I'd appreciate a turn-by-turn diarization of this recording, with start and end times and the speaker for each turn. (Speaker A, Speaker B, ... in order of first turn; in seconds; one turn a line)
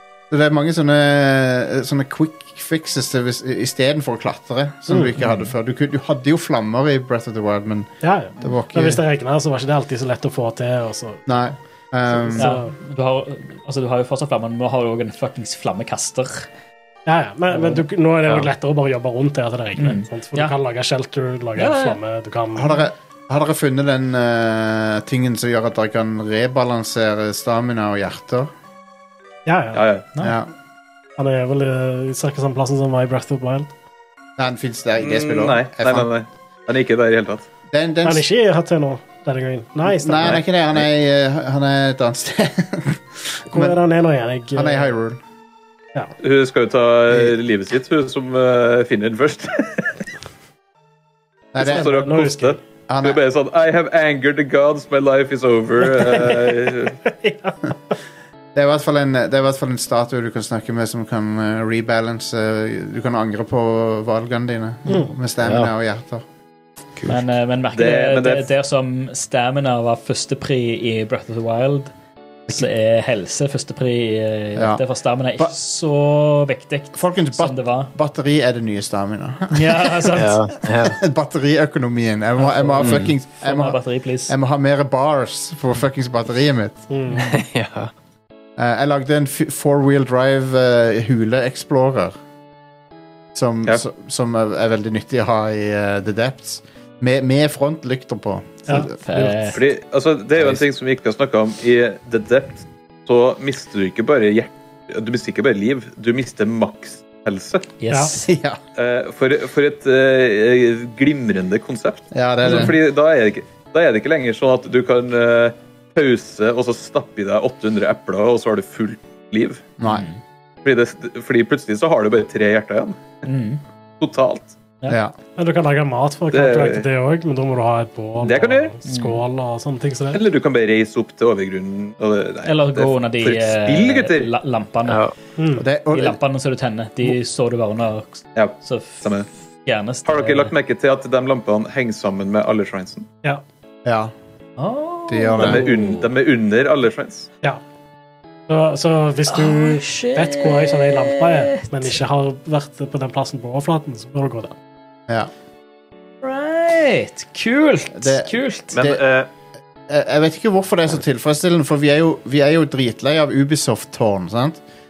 Speaker A: 0.3-9.0
Speaker B: 4.9-5.1
Speaker B: 8.0-11.2
Speaker A: 11.3-12.6
Speaker B: 12.1-12.7
Speaker C: 12.4-16.5
Speaker B: 17.1-22.8
Speaker C: 17.5-17.8
Speaker C: 19.8-20.5
Speaker C: 21.6-22.0
Speaker A: 22.5-28.5
Speaker B: 29.4-29.8
Speaker D: 29.7-30.1
Speaker A: 30.2-30.5
Speaker B: 31.2-33.7
Speaker A: 34.4-36.1
Speaker D: 35.0-37.5
Speaker A: 37.7-38.2
Speaker B: 38.0-40.4
Speaker A: 39.9-43.8
Speaker B: 43.5-44.9
Speaker A: 44.5-45.2
Speaker D: 46.2-50.0
Speaker A: 51.5-51.9
Speaker D: 51.6-57.0
Speaker B: 51.6-52.6
Speaker A: 52.9-53.2
Speaker B: 55.8-57.6
Speaker A: 58.5-66.2
Speaker E: 65.4-65.7
Speaker C: 67.1-71.9
Speaker D: 67.7-68.5
Speaker C: 72.5-77.9
Speaker A: 74.5-74.8
Speaker A: 76.9-86.8
Speaker C: 79.5-80.5
Speaker E: 80.1-81.0
Speaker C: 82.4-84.3
Speaker E: 82.8-83.1
Speaker B: 86.9-87.3
Speaker E: 87.2-87.9
Speaker A: 88.6-92.1
Speaker A: 93.3-99.3
Speaker B: 98.7-99.3
Speaker C: 99.0-99.6
Speaker D: 99.5-107.7
Speaker C: 107.8-108.3
Speaker A: 108.2-108.6
Speaker D: 108.7-119.7
Speaker A: 112.1-112.8
Speaker A: 119.8-120.0
Speaker C: 119.8-120.2
Speaker D: 120.6-123.2
Speaker C: 123.2-123.6
Speaker D: 124.0-124.5
Speaker A: 124.9-125.1
Speaker B: 125.4-130.2
Speaker D: 126.3-126.9
Speaker D: 128.2-128.7
Speaker C: 128.8-129.2
Speaker D: 130.1-134.3
Speaker C: 132.4-135.0
Speaker E: 134.8-135.1
Speaker B: 135.4-135.7
Speaker A: 135.6-136.2
Speaker C: 135.9-139.0
Speaker D: 138.3-139.3
Speaker C: 139.7-140.5
Speaker D: 140.0-143.1
Speaker A: 143.8-144.1
Speaker C: 144.6-146.1
Speaker A: 145.1-145.6
Speaker D: 145.4-147.3
Speaker B: 148.5-154.6
Speaker C: 149.3-151.9
Speaker C: 156.2-158.8
Speaker A: 157.9-159.0
Speaker D: 158.7-159.3
Speaker A: 159.9-164.6